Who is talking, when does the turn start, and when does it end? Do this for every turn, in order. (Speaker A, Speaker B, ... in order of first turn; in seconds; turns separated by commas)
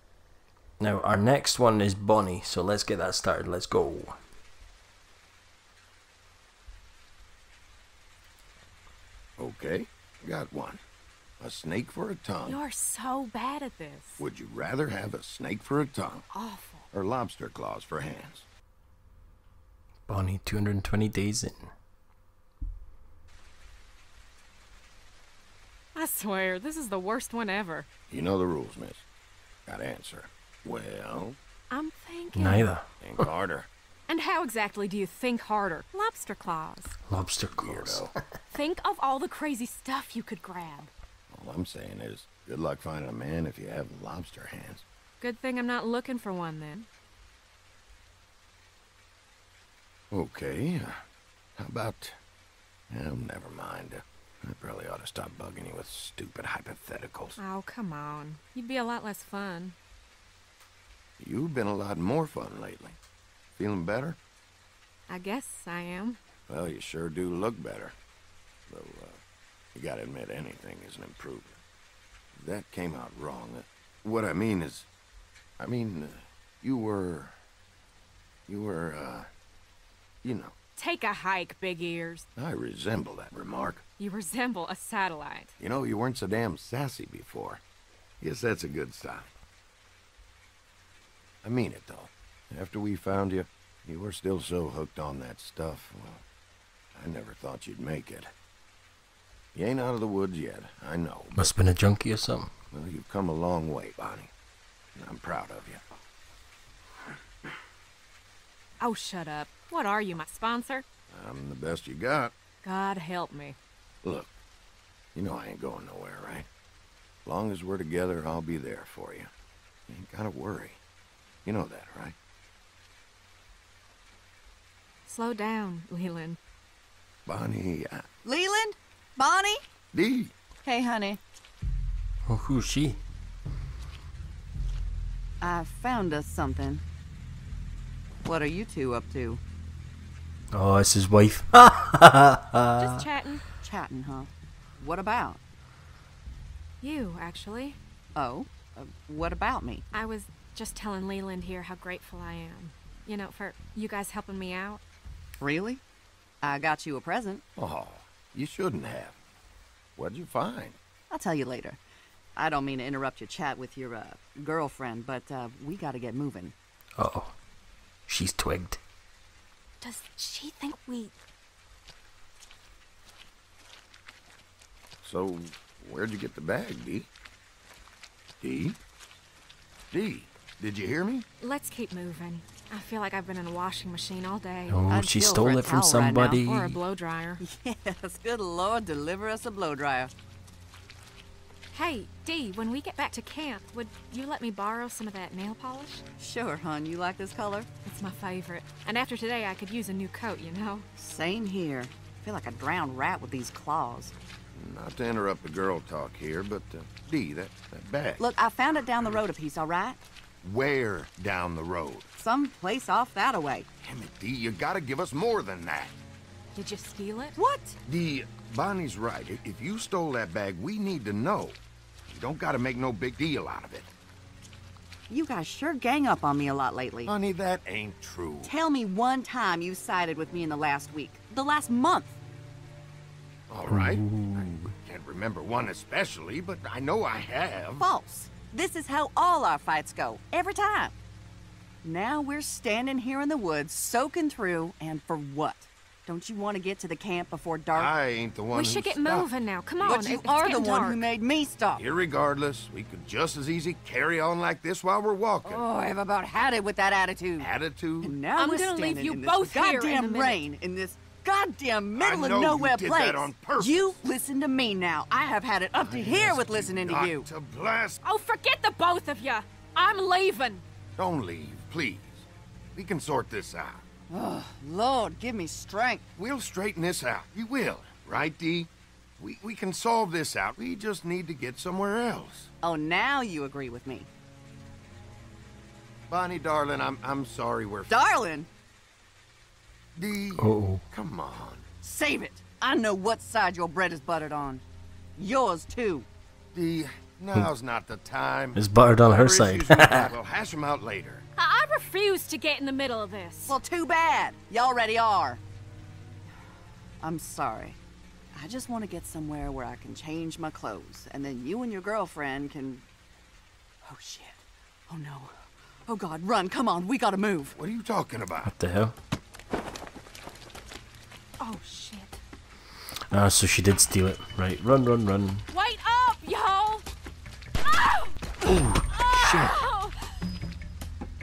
Speaker A: 0.8-4.2, Speaker B: 9.4-10.8, Speaker B: 11.4-12.6, Speaker C: 12.5-14.2, Speaker B: 14.2-16.3, Speaker C: 16.3-16.9, Speaker B: 16.9-18.5, Speaker A: 20.1-21.7, Speaker C: 25.9-27.9, Speaker B: 28.1-29.0, Speaker B: 29.7-31.4, Speaker C: 31.7-32.7, Speaker A: 32.3-32.9, Speaker B: 33.0-33.7, Speaker C: 34.1-37.0, Speaker A: 37.1-38.1, Speaker B: 37.6-38.1, Speaker C: 38.5-40.9, Speaker B: 41.3-44.9, Speaker C: 45.2-46.9, Speaker B: 50.1-51.0, Speaker B: 51.6-52.2, Speaker B: 52.9-57.4, Speaker C: 57.4-59.8, Speaker B: 61.2-63.0, Speaker B: 63.6-64.2, Speaker C: 65.1-66.2, Speaker B: 66.5-68.0, Speaker B: 68.7-69.2, Speaker B: 69.7-71.6, Speaker B: 72.3-74.9, Speaker B: 75.6-77.4, Speaker B: 78.5-79.3, Speaker B: 80.2-80.5, Speaker C: 80.8-82.3, Speaker B: 82.4-83.8, Speaker C: 84.0-85.5, Speaker B: 85.6-87.6, Speaker B: 88.2-89.3, Speaker B: 91.4-96.2, Speaker B: 96.9-98.3, Speaker B: 99.5-101.4, Speaker A: 101.4-102.5, Speaker B: 102.7-104.3, Speaker B: 105.0-105.8, Speaker C: 108.8-110.8, Speaker B: 111.1-112.3, Speaker C: 112.6-113.6, Speaker B: 114.0-114.3, Speaker B: 115.2-116.5, Speaker B: 117.2-119.3, Speaker B: 119.9-120.8, Speaker B: 121.5-122.2, Speaker C: 125.1-126.4, Speaker B: 127.3-128.1, Speaker D: 128.2-129.6, Speaker B: 129.9-130.3, Speaker D: 130.6-131.2, Speaker A: 132.3-133.0, Speaker D: 135.4-136.8, Speaker D: 138.2-139.4, Speaker A: 140.5-143.0, Speaker C: 142.8-143.4, Speaker D: 143.6-145.4, Speaker C: 146.8-147.8, Speaker D: 148.2-149.8, Speaker C: 149.9-154.8, Speaker D: 155.4-155.8, Speaker D: 156.4-157.4, Speaker B: 157.6-159.2, Speaker B: 160.0-160.8, Speaker D: 161.1-161.8, Speaker D: 162.4-166.6, Speaker A: 167.0-167.3, Speaker A: 168.1-168.8, Speaker C: 169.8-171.1, Speaker B: 175.0-177.1, Speaker B: 178.4-178.8, Speaker B: 179.9-181.3, Speaker C: 181.4-184.8, Speaker A: 184.7-186.8, Speaker D: 184.9-186.4, Speaker C: 186.4-187.4, Speaker D: 187.4-190.1, Speaker C: 191.7-196.0, Speaker D: 196.2-197.7, Speaker C: 197.8-200.9, Speaker D: 201.0-204.1, Speaker B: 204.6-208.3, Speaker D: 208.2-210.0, Speaker B: 210.4-212.1, Speaker D: 212.2-213.7, Speaker B: 213.8-215.9, Speaker C: 216.6-217.4, Speaker D: 217.4-217.8, Speaker B: 217.9-223.9, Speaker D: 225.1-227.1, Speaker B: 227.1-228.5, Speaker D: 228.4-232.2, Speaker B: 233.5-234.1, Speaker A: 233.7-234.8, Speaker B: 234.8-237.9, Speaker D: 237.8-240.9, Speaker D: 241.8-247.9, Speaker B: 247.7-249.3, Speaker C: 248.5-251.0, Speaker B: 249.8-250.1, Speaker D: 249.8-251.8, Speaker B: 251.8-255.6, Speaker D: 255.4-257.5, Speaker B: 257.4-258.1, Speaker D: 258.0-267.3, Speaker C: 258.4-260.4, Speaker B: 261.9-264.0, Speaker B: 265.7-268.0, Speaker C: 268.0-270.6, Speaker B: 271.0-273.8, Speaker D: 274.1-276.1, Speaker B: 276.2-282.5, Speaker D: 282.6-284.1, Speaker B: 286.1-288.0, Speaker D: 287.9-288.5, Speaker B: 289.9-291.7, Speaker A: 290.4-290.8, Speaker D: 291.8-294.6, Speaker D: 295.2-296.1, Speaker B: 296.5-301.2, Speaker A: 298.6-300.1, Speaker C: 301.4-303.6, Speaker D: 303.5-305.4, Speaker D: 307.0-307.8, Speaker D: 308.3-312.9, Speaker D: 313.8-315.4, Speaker D: 315.9-317.6, Speaker B: 317.6-318.5, Speaker A: 318.4-318.9, Speaker C: 321.4-322.2, Speaker A: 323.1-325.5, Speaker C: 325.5-326.9, Speaker C: 327.6-328.2, Speaker A: 328.4-329.6, Speaker C: 328.9-330.2